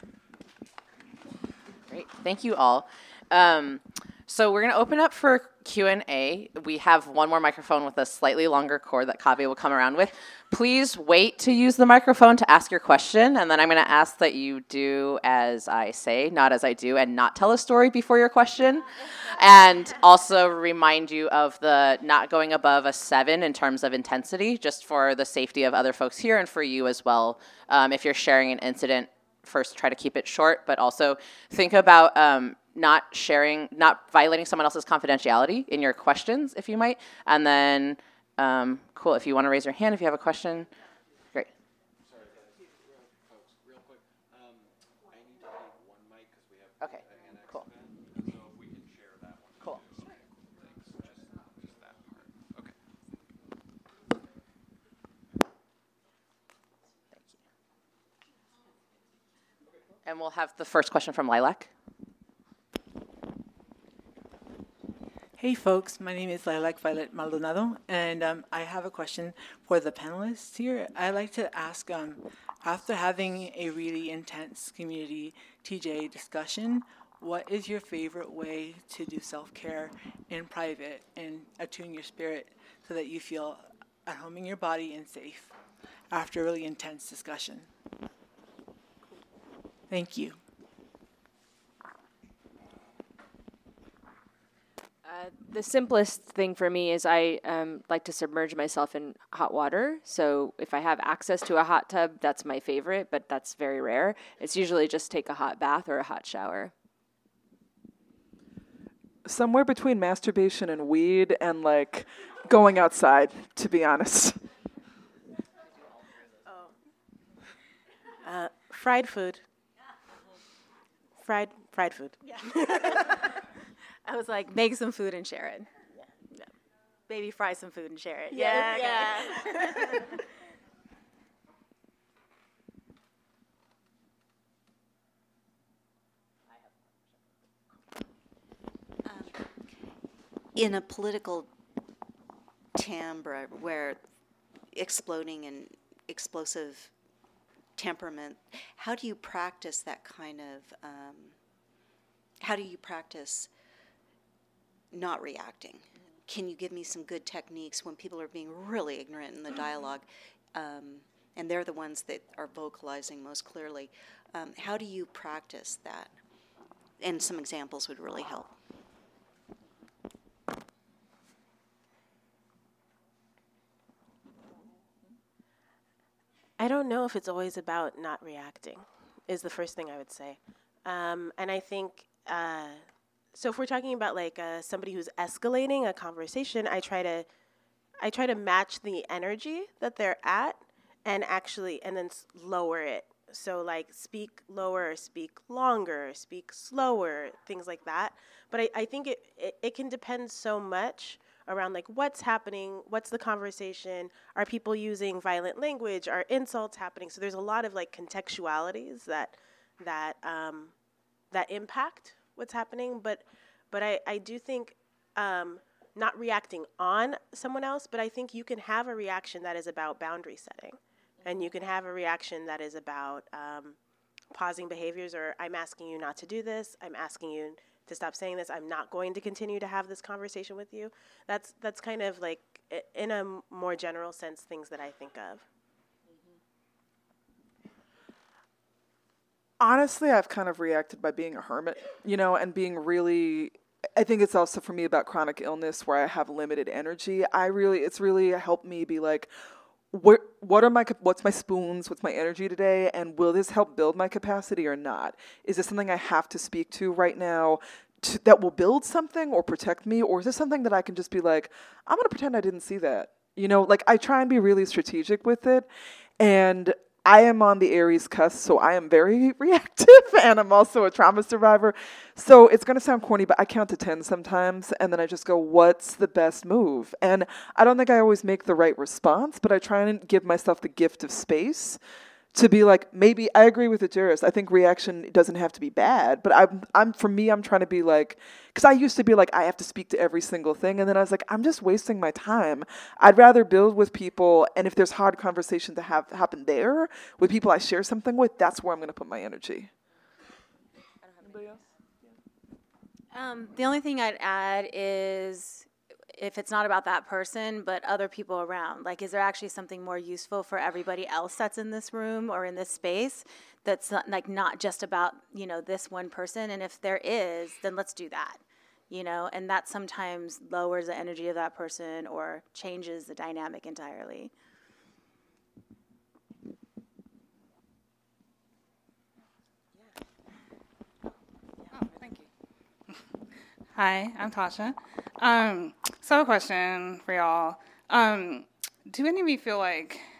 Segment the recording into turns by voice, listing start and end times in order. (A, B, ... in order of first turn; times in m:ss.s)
0:01.9-0:40.7 A
0:42.0-0:52.8 B
0:46.8-0:47.7 A
1:00.0-1:01.7 A
1:05.4-1:25.5 C
1:26.1-1:27.7 C
1:29.9-1:30.4 C
1:35.0-1:46.7 D
1:49.2-1:54.4 E
1:58.2-1:59.4 F
2:01.2-2:03.2 F
2:02.7-2:03.2 G
2:04.0-2:05.7 G
2:07.1-2:10.2 G
2:08.3-2:10.1 F
2:19.0-2:19.5 H
2:20.5-2:21.5 H
2:22.7-2:24.0 H
2:24.7-2:26.9 H
2:27.8-2:31.4 H
2:32.4-2:33.5 H
2:34.9-2:46.1 H
2:47.0-2:48.6 H
2:56.6-3:07.3 F
3:08.0-3:30.7 F
3:31.3-3:43.8 F
3:44.3-3:55.4 F
3:59.6-4:09.3 E
4:09.9-4:25.7 E
4:26.2-4:41.8 E
4:42.3-4:59.7 E
5:03.1-5:24.3 G
5:31.7-5:32.3 I
5:33.7-5:40.0 I